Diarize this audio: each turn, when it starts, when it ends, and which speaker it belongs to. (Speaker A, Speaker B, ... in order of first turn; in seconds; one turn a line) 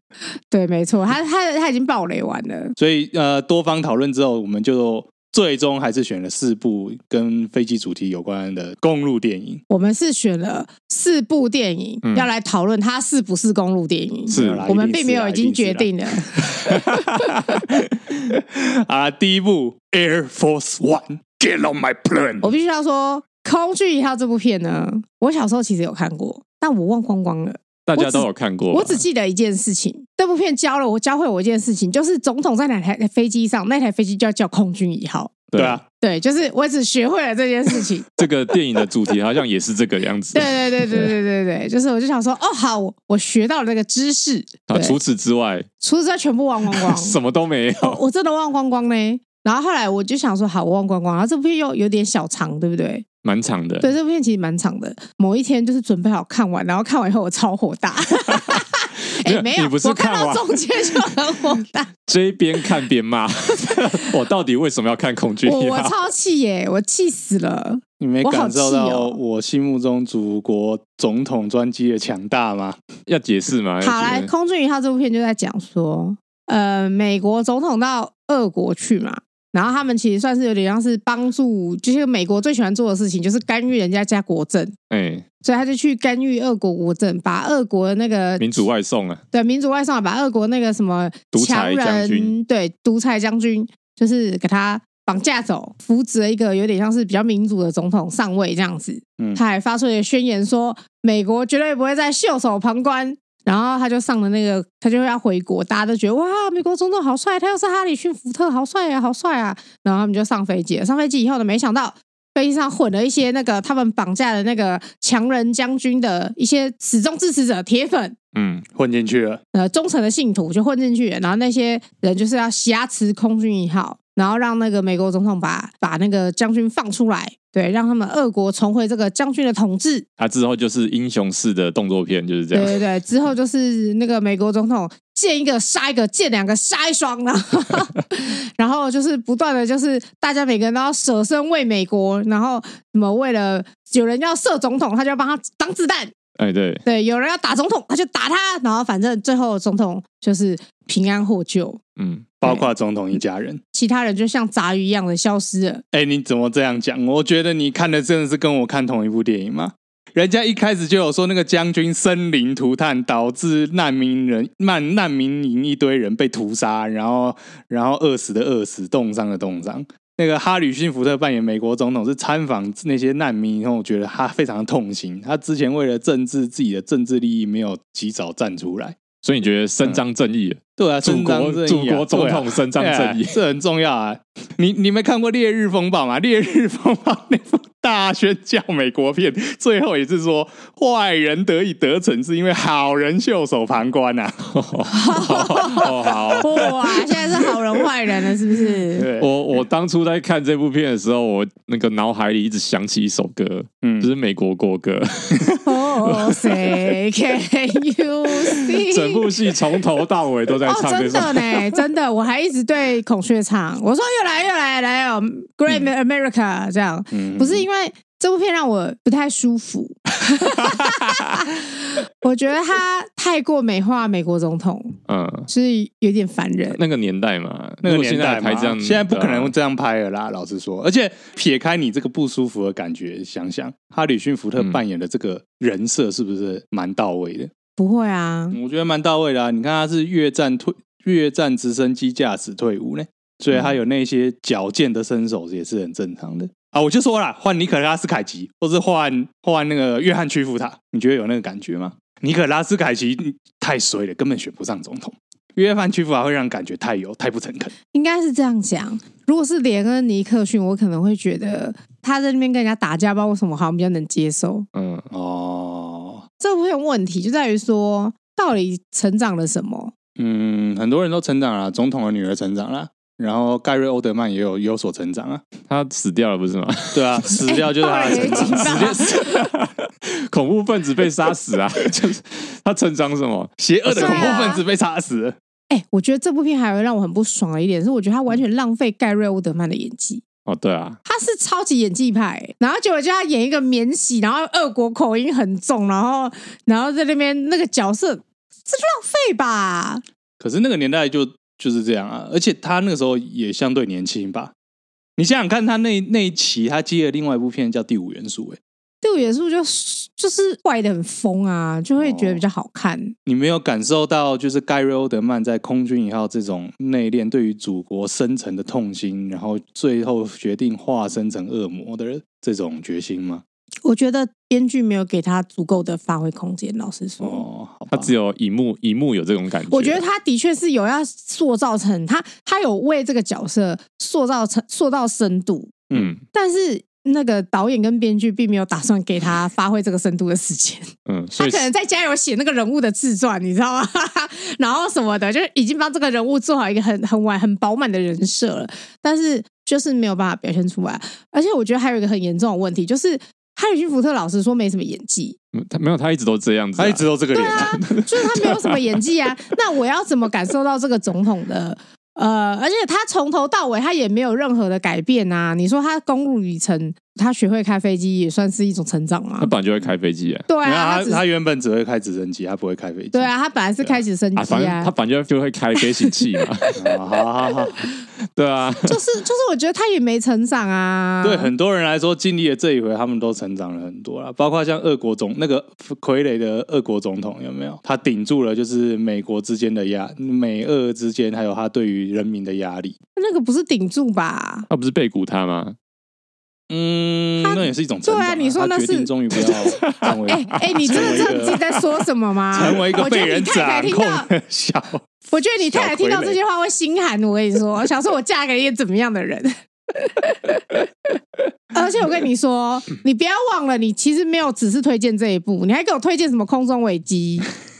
Speaker A: 0.5-2.8
Speaker B: 2.8-9.6
Speaker A: 9.7-17.6
Speaker B: 14.3-16.7
Speaker C: 14.3-14.7
Speaker B: 18.1-22.5
Speaker A: 22.4-35.4
Speaker C: 27.9-29.0
Speaker C: 35.5-35.8
Speaker B: 35.6-35.8
Speaker A: 36.0-38.3
Speaker C: 38.2-41.1
Speaker A: 40.3-45.0
Speaker C: 44.7-45.7
Speaker A: 45.8-47.2
Speaker C: 46.7-48.0
Speaker A: 47.8-53.1
Speaker C: 53.2-53.9
Speaker A: 53.8-61.9
Speaker C: 58.3-58.6
Speaker C: 59.2-61.2
Speaker C: 62.1-65.9
Speaker A: 63.7-64.1
Speaker A: 65.5-69.2
Speaker B: 68.0-72.8
Speaker C: 73.1-74.3
Speaker A: 73.8-84.8
Speaker C: 84.9-85.2
Speaker A: 85.4-88.5
Speaker C: 88.4-89.2
Speaker A: 89.3-118.2
Speaker C: 91.3-92.3
Speaker C: 118.3-118.7
Speaker B: 118.8-119.4
Speaker A: 119.5-130.1
Speaker C: 130.2-132.8
Speaker A: 132.5-146.1
Speaker C: 146.4-146.8
Speaker A: 146.8-151.8
Speaker C: 152.0-152.3
Speaker B: 152.4-153.6
Speaker A: 153.7-155.8
Speaker B: 155.9-179.0
Speaker C: 179.2-183.4
Speaker B: 180.8-194.5
Speaker C: 194.5-196.7
Speaker A: 194.9-199.1
Speaker B: 199.0-199.3
Speaker C: 199.2-206.9
Speaker B: 203.8-204.1
Speaker A: 205.6-209.3
Speaker C: 208.6-211.8
Speaker A: 210.7-224.9
Speaker B: 217.1-217.7
Speaker C: 225.1-225.5
Speaker A: 225.5-226.8
Speaker C: 226.7-229.5
Speaker B: 227.8-237.5
Speaker A: 237.8-238.6
Speaker B: 238.5-257.7
Speaker A: 257.9-264.7
Speaker C: 264.8-265.1
Speaker B: 265.1-266.2
Speaker A: 266.4-269.9
Speaker B: 270.2-275.5
Speaker C: 275.7-277.5
Speaker B: 276.9-279.4
Speaker A: 277.5-279.4
Speaker C: 278.1-284.5
Speaker B: 283.6-285.4
Speaker A: 283.9-284.6
Speaker A: 285.7-290.2
Speaker C: 290.5-291.0
Speaker A: 291.1-300.0
Speaker B: 300.4-304.5
Speaker B: 305.2-308.6
Speaker A: 309.0-313.1
Speaker B: 312.0-312.4
Speaker B: 313.3-323.4
Speaker A: 323.9-327.4
Speaker B: 327.2-328.1
Speaker C: 327.9-330.0
Speaker A: 329.7-335.8
Speaker C: 335.9-336.2
Speaker A: 336.3-355.4
Speaker C: 341.1-341.7
Speaker C: 355.5-357.1
Speaker B: 356.8-357.8
Speaker A: 357.3-369.5
Speaker C: 357.6-358.7
Speaker C: 369.4-370.5
Speaker A: 370.5-371.2
Speaker B: 370.6-373.3
Speaker A: 373.1-374.9
Speaker C: 374.4-376.8
Speaker B: 376.8-377.8
Speaker C: 378.4-379.0
Speaker A: 378.9-381.5
Speaker B: 381.2-393.0
Speaker A: 393.2-394.7
Speaker C: 394.7-395.8
Speaker B: 396.7-401.8
Speaker A: 397.4-399.1
Speaker A: 400.3-404.3
Speaker B: 402.5-405.0
Speaker A: 405.3-411.2
Speaker B: 405.6-406.4
Speaker A: 411.7-417.5